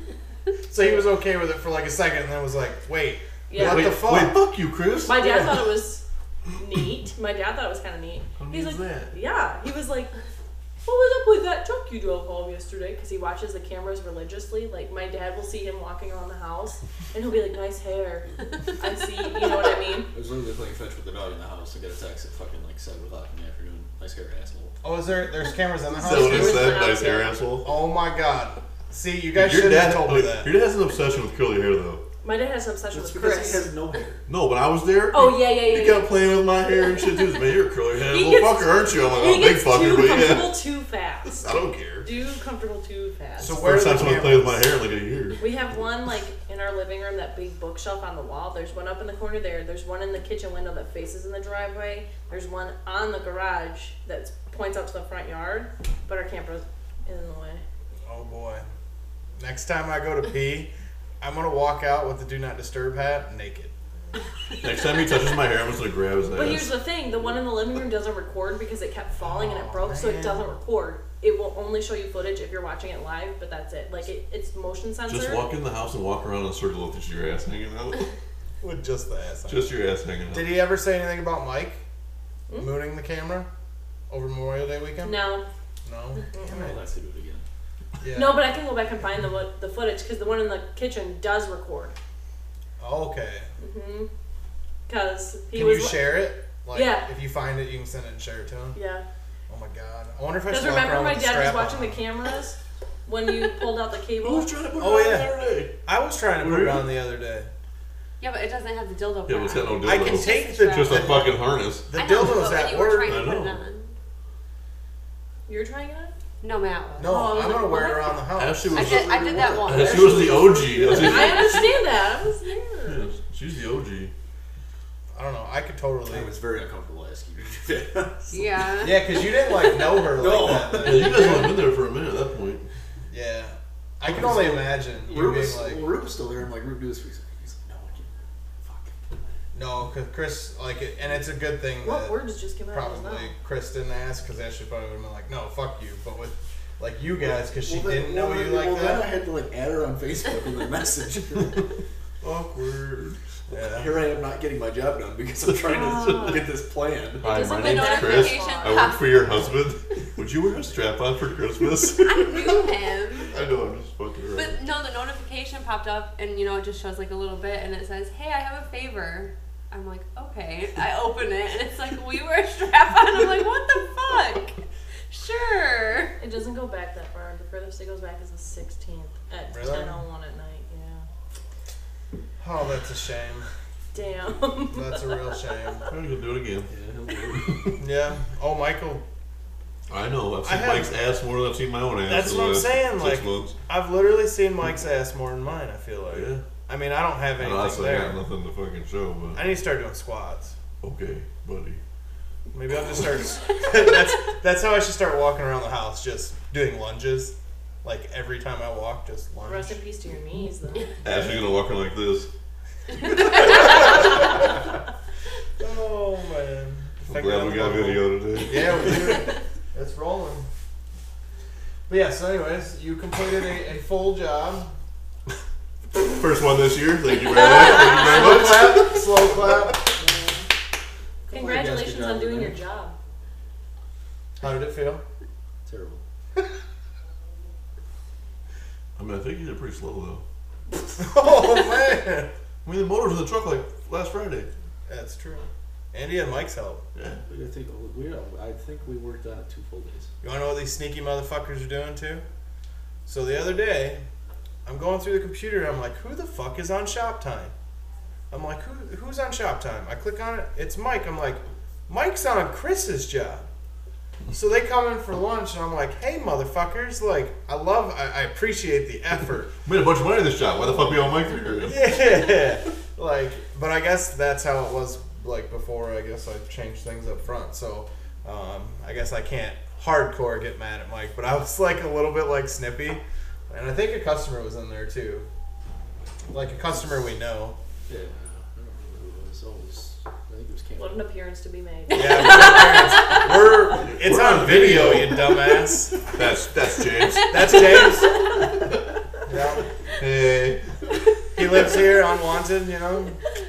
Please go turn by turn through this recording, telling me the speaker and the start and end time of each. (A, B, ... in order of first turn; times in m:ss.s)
0:00.7-0:04.4 A
0:03.5-0:04.0 B
0:03.6-0:05.6 C
0:05.0-0:06.0 B
0:06.6-0:10.1 B
0:08.4-0:09.2 C
0:10.8-0:20.1 B
0:20.1-0:24.7 D
0:24.8-0:26.8 A
0:25.9-0:27.7 C
0:26.0-0:27.3 B
0:27.6-0:30.5 A
0:29.4-0:32.0 C
0:32.2-0:33.7 B
0:32.9-0:34.2 D
0:34.3-0:40.5 C
0:35.1-0:36.2 B
0:38.1-0:41.5 B
0:41.2-0:42.1 C
0:42.0-0:43.6 B
0:43.4-0:44.6 A
0:43.5-0:45.4 C
0:45.4-0:57.6 B
0:58.0-0:58.6 A
0:59.4-1:00.7 A
1:01.2-1:03.7 A
1:04.6-1:06.7 C
1:06.3-1:15.4 B
1:09.2-1:10.6 A
1:15.1-1:18.1 C
1:18.6-1:19.8 A
1:19.5-1:20.5 C
1:20.3-1:21.8 A
1:22.6-1:23.5 A
1:24.1-1:25.2 A
1:25.0-1:25.4 B
1:25.8-1:26.8 A
1:26.4-1:27.4 D
1:28.0-1:28.5 A
1:28.1-1:32.0 B
1:32.8-1:33.5 A
1:33.6-1:34.1 B
1:34.9-1:36.0 B
1:35.5-1:38.8 A
1:36.7-1:37.1 B
1:38.7-1:39.0 B
1:39.5-1:42.0 A
1:40.5-1:44.6 B
1:44.2-1:45.7 C
1:44.8-1:45.3 A
1:45.8-1:47.5 A
1:46.4-1:46.9 C
1:48.2-1:51.3 E
1:49.3-1:51.9 C
1:49.8-1:51.3 A
1:51.9-1:53.2 A
1:52.0-1:53.9 E
1:53.0-1:53.6 C
1:55.5-1:56.2 B
1:56.4-1:57.3 E
1:57.0-1:58.7 A
1:57.0-1:58.2 B
1:58.3-2:01.7 C
1:58.7-2:01.5 D
1:58.7-2:00.3 E
2:00.9-2:03.0 B
2:02.8-2:04.1 C
2:05.2-2:06.3 A
2:06.1-2:08.7 D
2:08.3-2:10.1 E
2:08.8-2:11.6 A
2:10.2-2:11.5 D
2:10.3-2:12.7 C
2:13.1-2:15.8 A
2:14.0-2:18.1 D
2:18.6-2:19.0 D
2:19.5-2:22.2 A
2:21.8-2:23.3 B
2:22.7-2:29.1 A
2:27.5-2:31.6 D
2:32.2-2:33.2 C
2:33.5-2:34.0 A
2:33.6-2:37.3 D
2:35.4-2:36.5 C
2:35.7-2:36.5 B
2:37.2-2:44.6 C
2:37.2-2:38.9 B
2:37.3-2:39.3 E
2:42.0-2:43.4 E
2:44.3-2:56.2 E
2:56.2-3:01.1 B
2:59.5-3:00.0 A
3:02.4-3:03.5 A
3:03.9-3:05.3 B
3:04.7-3:05.9 A
3:05.9-3:06.7 C
3:06.7-3:07.6 D
3:07.3-3:07.8 C
3:07.8-3:09.0 A
3:09.9-3:13.6 C
3:10.4-3:10.9 A
3:12.0-3:18.2 A
3:16.1-3:16.4 C
3:17.4-3:19.4 C
3:19.4-3:20.6 A
3:20.8-3:21.8 C
3:22.5-3:29.8 A
3:29.5-3:30.9 B
3:31.0-3:32.3 C
3:31.1-3:31.4 A
3:33.1-3:34.0 C
3:35.6-3:40.5 A
3:37.1-3:39.2 C
3:41.9-3:44.7 A
3:45.9-3:49.7 C
3:47.6-3:50.0 A
3:47.8-3:48.1 B
3:50.0-3:50.5 B
3:51.3-3:52.9 B
3:51.3-3:52.6 D
3:54.4-3:55.0 A
3:55.6-3:56.0 D
3:59.0-4:00.2 C
4:01.0-4:02.3 A
4:02.6-4:04.5 C
4:04.9-4:06.8 A
4:07.0-4:07.2 C
4:07.3-4:10.1 D
4:10.2-4:12.2 A
4:13.1-4:14.0 A
4:14.6-4:17.5 A
4:18.3-4:23.4 A
4:24.3-4:29.5 A
4:29.6-4:32.4 C
4:31.6-4:45.3 A
4:46.3-4:47.6 A
4:47.9-4:51.0 D
4:50.8-4:53.3 B
4:51.9-4:56.0 A
4:53.8-4:55.3 C
4:56.1-4:57.6 C
4:57.3-4:58.3 A
4:59.3-4:59.6 A
5:00.0-5:00.6 C
5:01.3-5:03.2 A